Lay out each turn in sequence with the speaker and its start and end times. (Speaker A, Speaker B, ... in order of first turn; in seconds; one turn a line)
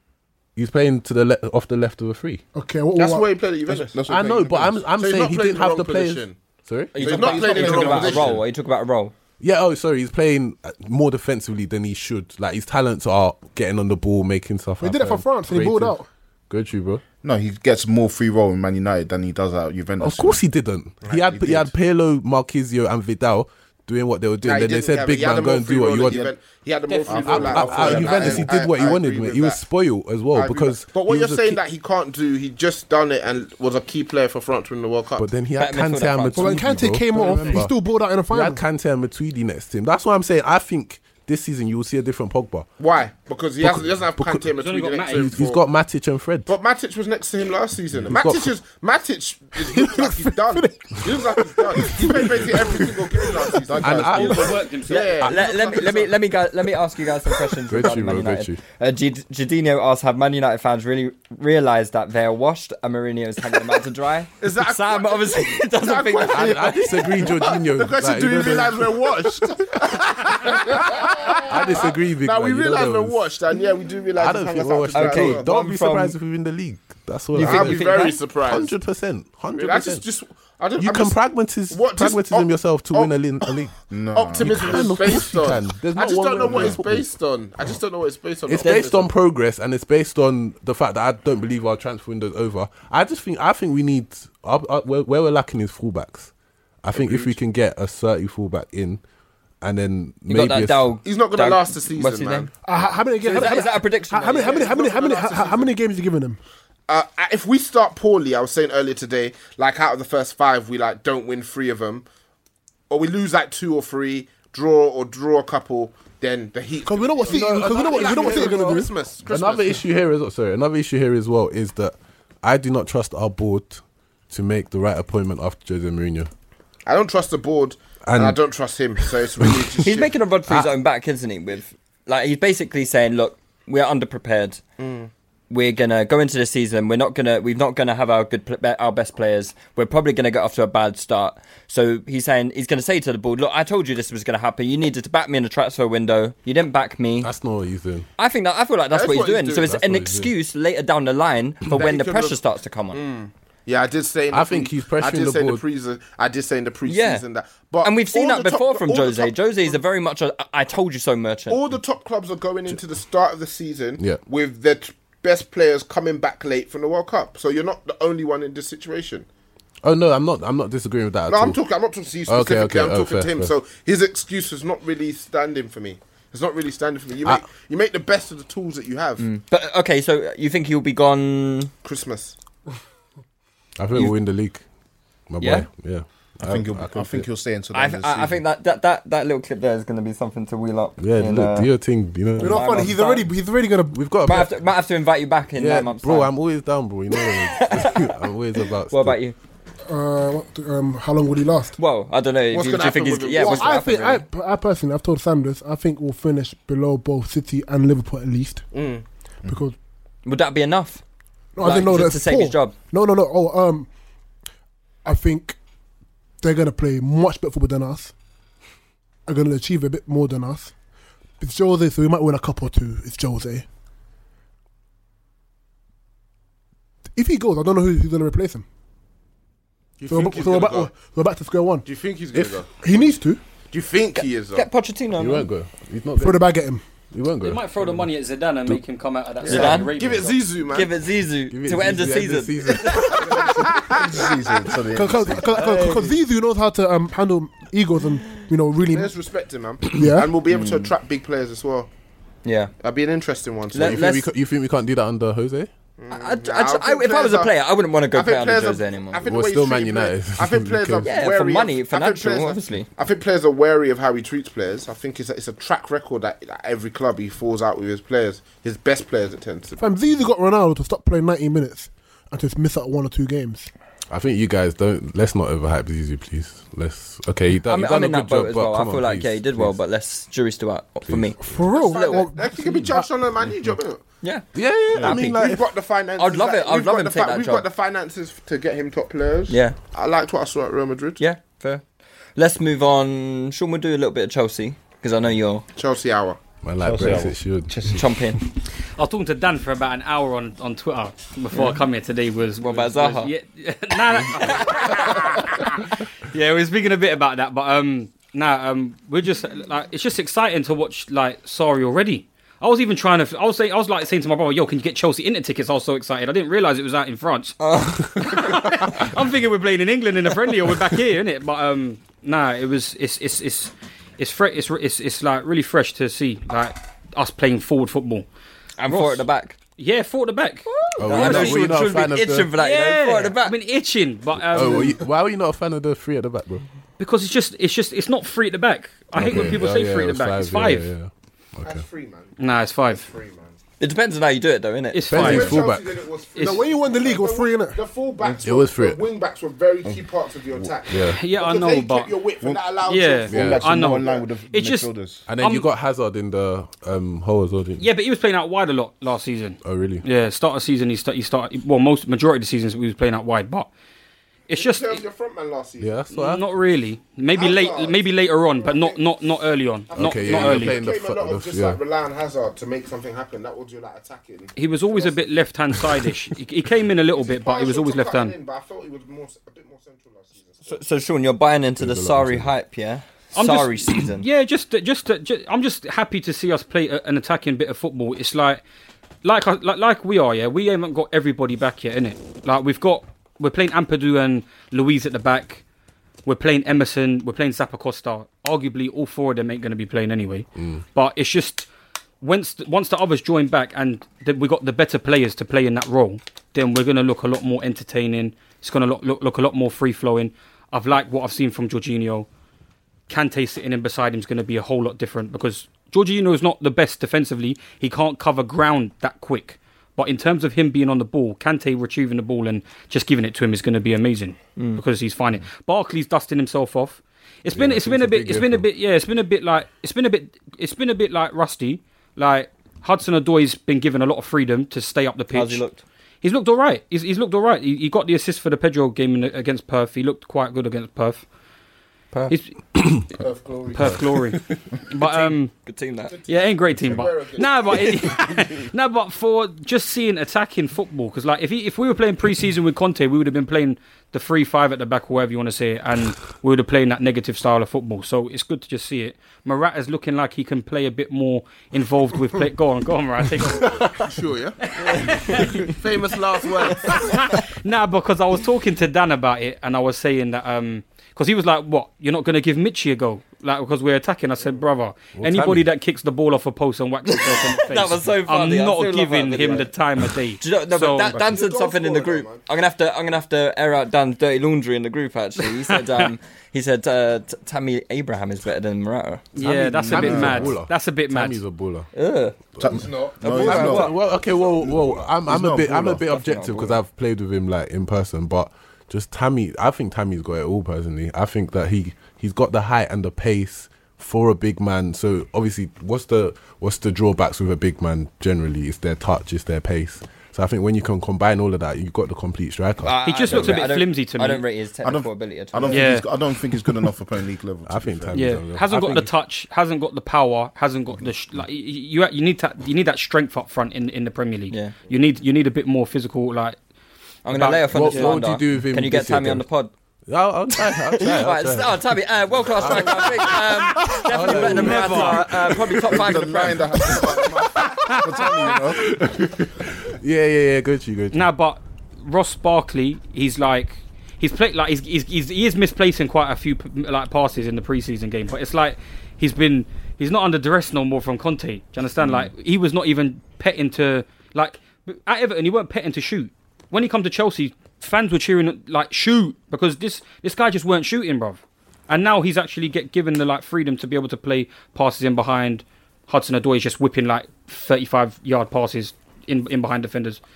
Speaker A: 0.6-2.4
Speaker B: 2.5-3.3
Speaker C: 3.0-4.0
Speaker D: 3.7-4.8
Speaker A: 4.1-7.8
Speaker C: 5.0-6.4
Speaker E: 6.9-9.1
Speaker C: 7.0-8.4
Speaker D: 7.1-8.3
Speaker A: 9.4-15.9
Speaker B: 14.8-16.1
Speaker A: 16.5-17.0
Speaker D: 17.2-20.4
Speaker A: 20.0-26.2
Speaker D: 21.1-21.7
Speaker C: 24.4-29.6
Speaker D: 26.1-26.3
Speaker D: 27.1-28.8
Speaker A: 27.1-31.6
Speaker C: 30.3-35.3
Speaker A: 35.2-42.7
Speaker E: 35.6-36.6
Speaker B: 36.4-38.6
Speaker F: 37.3-37.6
Speaker C: 42.8-45.6
Speaker A: 43.6-44.5
Speaker F: 44.6-45.4
Speaker A: 45.1-46.5
Speaker C: 46.5-56.1
Speaker A: 48.1-48.5
Speaker B: 49.6-53.7
Speaker D: 53.7-54.4
Speaker A: 53.8-54.6
Speaker F: 54.1-55.1
Speaker E: 54.9-66.6
Speaker A: 57.7-58.6
Speaker C: 64.4-75.5
Speaker A: 66.3-69.5
Speaker A: 71.4-73.2
Speaker A: 74.2-80.0
Speaker E: 74.9-76.2
Speaker C: 77.4-78.7
Speaker C: 79.6-83.5
Speaker A: 80.8-83.8
Speaker D: 83.9-85.1
Speaker C: 84.1-89.1
Speaker A: 84.3-87.1
Speaker D: 86.5-86.8
Speaker A: 88.5-96.3
Speaker E: 88.6-88.9
Speaker A: 96.8-99.0
Speaker C: 96.9-97.4
Speaker A: 99.6-101.0
Speaker E: 100.3-102.5
Speaker C: 101.0-102.5
Speaker B: 102.6-106.4
Speaker E: 103.2-104.7
Speaker C: 103.3-103.6
Speaker C: 104.3-105.8
Speaker C: 106.9-112.0
Speaker C: 112.9-119.8
Speaker B: 116.9-118.9
Speaker A: 117.3-126.3
Speaker C: 126.9-130.1
Speaker A: 128.1-128.4
Speaker A: 129.1-129.6
Speaker E: 129.8-134.6
Speaker A: 130.5-130.7
Speaker C: 134.8-135.1
Speaker E: 135.5-147.3
Speaker A: 147.2-148.1
Speaker E: 148.2-153.0
Speaker C: 148.9-149.7
Speaker A: 149.6-150.3
Speaker C: 151.7-152.4
Speaker C: 152.9-159.8
Speaker A: 154.3-155.6
Speaker E: 156.9-157.2
Speaker E: 157.8-161.6
Speaker C: 161.5-169.3
Speaker A: 169.8-171.6
Speaker C: 171.3-179.2
Speaker A: 172.3-173.5
Speaker E: 179.2-181.7
Speaker C: 181.8-182.3
Speaker A: 183.8-184.6
Speaker A: 185.3-187.3
Speaker E: 185.4-185.7
Speaker D: 186.4-188.4
Speaker E: 187.7-191.7
Speaker A: 191.0-193.0
Speaker E: 192.4-193.3
Speaker B: 192.4-194.0
Speaker A: 193.9-194.5
Speaker E: 194.2-196.3
Speaker A: 195.6-199.2
Speaker E: 197.1-198.1
Speaker E: 198.9-199.3
Speaker B: 199.9-201.8
Speaker E: 201.8-204.2
Speaker C: 202.5-203.8
Speaker B: 203.4-208.7
Speaker C: 208.7-209.0
Speaker B: 209.4-209.8
Speaker E: 210.2-211.0
Speaker B: 211.6-213.9
Speaker E: 211.6-212.7
Speaker B: 215.1-215.6
Speaker B: 216.4-218.1
Speaker B: 219.3-220.7
Speaker B: 221.4-223.7
Speaker B: 227.2-228.7
Speaker C: 230.0-230.9
Speaker B: 230.1-231.9
Speaker C: 231.8-232.8
Speaker A: 232.3-232.6
Speaker B: 232.8-233.4
Speaker C: 233.7-234.7
Speaker E: 234.2-235.5
Speaker A: 235.2-236.6
Speaker B: 236.2-236.8
Speaker A: 237.1-238.1
Speaker F: 237.4-240.5
Speaker C: 239.4-240.9
Speaker E: 239.5-239.9
Speaker E: 240.7-243.2
Speaker A: 241.5-243.8
Speaker C: 243.1-244.3
Speaker D: 243.7-245.5
Speaker B: 244.9-249.1
Speaker A: 245.4-246.2
Speaker C: 248.9-251.9
Speaker B: 249.9-250.3
Speaker E: 250.5-250.9
Speaker E: 252.4-252.7
Speaker C: 252.8-254.1
Speaker E: 253.7-254.3
Speaker A: 253.8-255.7
Speaker C: 256.0-257.5
Speaker E: 256.1-259.2
Speaker C: 258.1-269.8
Speaker A: 259.3-261.2
Speaker E: 261.0-262.9
Speaker B: 269.8-273.7
Speaker A: 274.1-279.8
Speaker E: 277.7-282.3
Speaker A: 281.1-281.4
Speaker B: 281.4-283.1
Speaker C: 281.7-284.0
Speaker E: 284.2-285.5
Speaker A: 284.5-285.7
Speaker C: 285.0-291.2
Speaker E: 286.2-287.6
Speaker E: 289.5-289.8
Speaker E: 291.2-291.8
Speaker E: 292.4-295.6
Speaker C: 295.8-296.4
Speaker A: 296.6-298.0
Speaker D: 296.8-298.0
Speaker E: 297.9-298.4
Speaker F: 299.0-328.3
Speaker E: 302.6-303.3
Speaker E: 304.4-305.2
Speaker E: 317.6-318.2
Speaker E: 328.8-329.6
Speaker F: 328.9-331.8
Speaker E: 330.7-333.6
Speaker A: 331.0-332.5
Speaker F: 332.5-335.0
Speaker A: 334.4-336.6
Speaker F: 337.0-340.9
Speaker A: 339.1-341.8
Speaker C: 341.6-343.6
Speaker F: 342.4-343.1
Speaker E: 343.8-345.4
Speaker F: 344.9-345.7
Speaker A: 345.1-346.0
Speaker C: 345.2-353.4
Speaker D: 345.2-345.5
Speaker F: 346.4-346.6
Speaker B: 346.4-347.8
Speaker A: 348.4-349.0
Speaker A: 350.9-351.2
Speaker F: 351.1-352.1
Speaker D: 352.4-355.2
Speaker F: 352.9-355.7
Speaker A: 353.3-353.7
Speaker C: 354.0-354.3
Speaker A: 355.3-357.9
Speaker F: 357.8-363.7
Speaker A: 359.6-360.1
Speaker F: 364.5-365.0
Speaker C: 364.5-365.9
Speaker A: 365.8-366.5
Speaker F: 366.1-370.8
Speaker C: 367.3-369.0
Speaker C: 369.9-375.4
Speaker A: 369.9-371.8
Speaker F: 374.6-378.4
Speaker C: 377.1-380.8
Speaker E: 380.6-384.3
Speaker A: 381.8-382.6
Speaker F: 383.3-388.6
Speaker F: 389.2-395.6
Speaker F: 396.3-401.7
Speaker A: 400.6-400.9
Speaker F: 402.2-412.3
Speaker F: 413.1-435.6
Speaker E: 424.6-424.8
Speaker A: 427.5-428.7
Speaker E: 435.3-435.8
Speaker F: 436.2-441.2
Speaker F: 442.3-442.8
Speaker A: 442.8-443.0
Speaker C: 443.2-443.7
Speaker F: 443.7-445.5
Speaker A: 443.8-444.6
Speaker E: 445.0-446.2
Speaker C: 446.1-447.5
Speaker F: 446.3-464.0
Speaker C: 464.0-467.1
Speaker F: 464.6-465.8
Speaker F: 466.7-481.2
Speaker A: 475.1-475.7
Speaker E: 477.1-479.7
Speaker E: 480.4-489.3
Speaker C: 481.1-482.4
Speaker F: 485.4-486.1
Speaker F: 489.4-491.4
Speaker A: 489.4-491.9
Speaker D: 489.4-490.6
Speaker E: 491.9-492.4
Speaker D: 492.6-496.0
Speaker C: 492.8-493.1
Speaker E: 493.2-494.0
Speaker A: 493.3-513.5
Speaker E: 496.1-496.8
Speaker E: 512.8-515.9
Speaker F: 513.0-514.4
Speaker D: 514.8-518.4
Speaker F: 515.7-516.1
Speaker A: 517.7-519.1
Speaker F: 518.1-526.6
Speaker E: 524.5-524.8
Speaker E: 527.2-529.7
Speaker F: 527.3-528.2
Speaker A: 527.7-529.5
Speaker A: 530.1-531.9
Speaker E: 530.7-537.0
Speaker A: 532.6-541.3
Speaker F: 534.2-535.2
Speaker D: 535.9-538.9
Speaker F: 541.1-570.2